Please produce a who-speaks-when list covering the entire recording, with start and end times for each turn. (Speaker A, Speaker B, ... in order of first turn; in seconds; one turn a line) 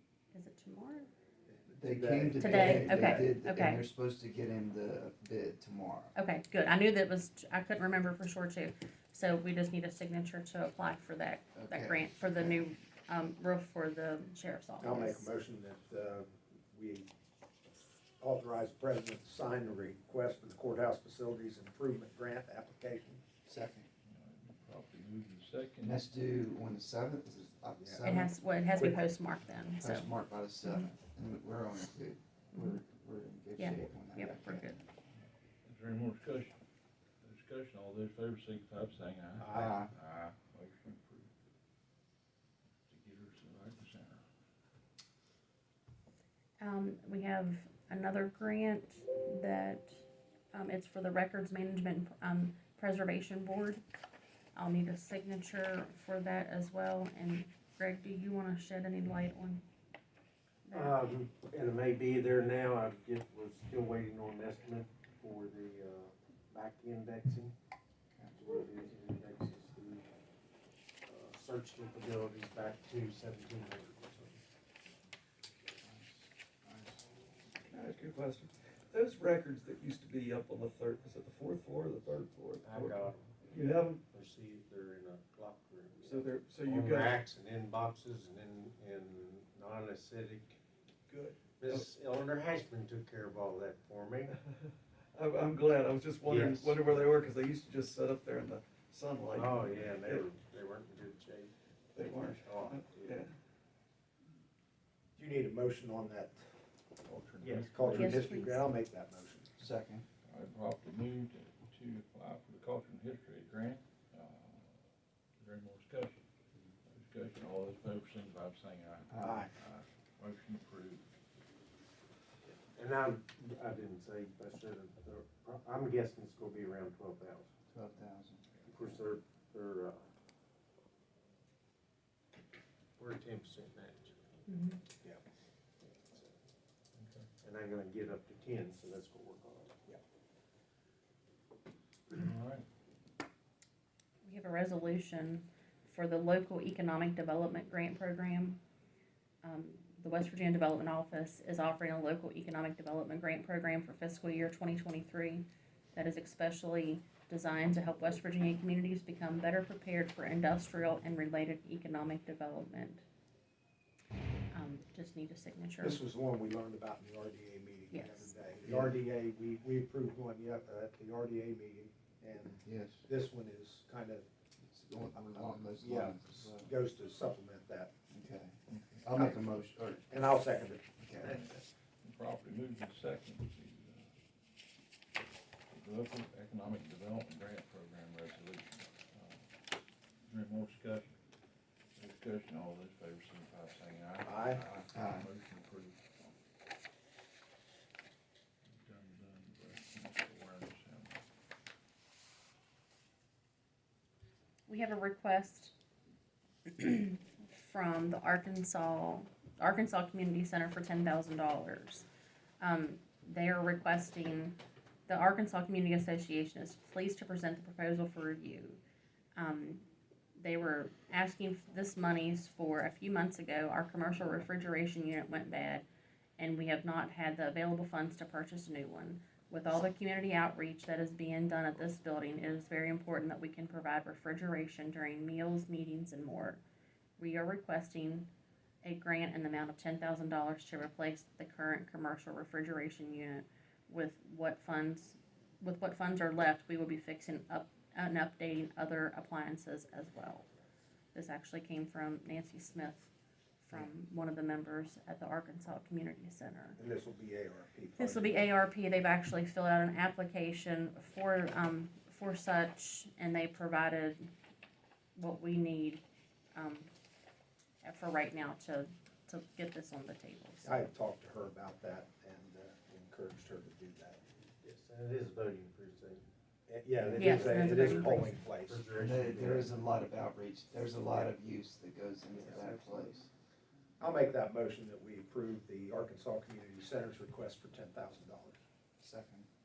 Speaker A: 0.3-1.1
Speaker B: 1.5-3.3
Speaker C: 1.7-6.1
Speaker A: 2.4-3.9
Speaker A: 6.1-15.3
Speaker C: 11.5-12.6
Speaker B: 14.8-17.1
Speaker B: 18.2-23.2
Speaker C: 23.4-23.9
Speaker D: 24.0-26.0
Speaker C: 25.8-28.3
Speaker A: 28.0-30.1
Speaker C: 29.8-34.8
Speaker A: 30.6-30.9
Speaker A: 32.5-32.8
Speaker A: 33.6-34.8
Speaker D: 35.6-36.5
Speaker D: 37.2-41.3
Speaker B: 39.4-39.8
Speaker C: 39.5-39.9
Speaker D: 42.9-44.2
Speaker A: 46.6-53.8
Speaker A: 54.5-59.6
Speaker A: 60.6-61.0
Speaker E: 60.7-67.5
Speaker E: 68.3-70.0
Speaker E: 71.0-74.4
Speaker C: 75.8-77.0
Speaker F: 77.7-84.0
Speaker E: 82.6-83.4
Speaker E: 84.0-90.6
Speaker F: 86.0-87.2
Speaker F: 91.1-91.9
Speaker E: 91.6-94.3
Speaker F: 95.1-100.2
Speaker E: 99.3-103.2
Speaker F: 101.9-103.3
Speaker B: 105.2-106.5
Speaker D: 107.0-108.6
Speaker E: 107.4-107.7
Speaker B: 107.7-109.6
Speaker A: 107.9-108.7
Speaker C: 109.6-110.0
Speaker D: 110.2-114.8
Speaker D: 115.4-116.2
Speaker D: 116.8-121.0
Speaker C: 119.1-119.5
Speaker B: 119.2-119.5
Speaker E: 122.7-127.5
Speaker C: 127.7-128.6
Speaker E: 128.7-130.0
Speaker E: 133.0-134.2
Speaker A: 134.5-134.8
Speaker E: 135.8-136.3
Speaker D: 137.0-137.3
Speaker E: 137.4-139.8
Speaker D: 142.1-142.7
Speaker A: 144.2-148.6
Speaker A: 149.4-163.0
Speaker A: 164.5-166.0
Speaker B: 165.8-174.3
Speaker A: 167.9-168.3
Speaker C: 168.6-168.9
Speaker C: 172.6-173.0
Speaker C: 174.7-176.7
Speaker B: 175.8-177.9
Speaker C: 178.1-180.3
Speaker D: 178.7-179.1
Speaker B: 180.1-180.9
Speaker C: 180.8-181.4
Speaker D: 181.2-184.1
Speaker D: 185.7-189.5
Speaker D: 190.3-191.1
Speaker D: 191.9-196.3
Speaker B: 194.2-194.6
Speaker C: 194.9-195.3
Speaker D: 198.7-201.2
Speaker A: 204.7-205.7
Speaker A: 206.7-212.0
Speaker A: 212.6-218.8
Speaker A: 219.3-219.8
Speaker A: 220.4-225.8
Speaker A: 226.4-236.6
Speaker A: 237.2-238.3
Speaker A: 238.8-250.5
Speaker A: 251.1-256.8
Speaker B: 256.8-258.4
Speaker A: 258.0-264.3
Speaker A: 265.1-266.0
Speaker A: 266.5-266.9
Speaker A: 267.8-270.8
Speaker B: 270.6-274.2
Speaker E: 274.6-276.2
Speaker B: 276.7-278.8
Speaker C: 277.0-277.5
Speaker A: 277.2-278.4
Speaker E: 277.3-279.7
Speaker C: 278.9-283.2
Speaker E: 282.3-283.2
Speaker B: 284.0-288.6
Speaker C: 289.0-289.5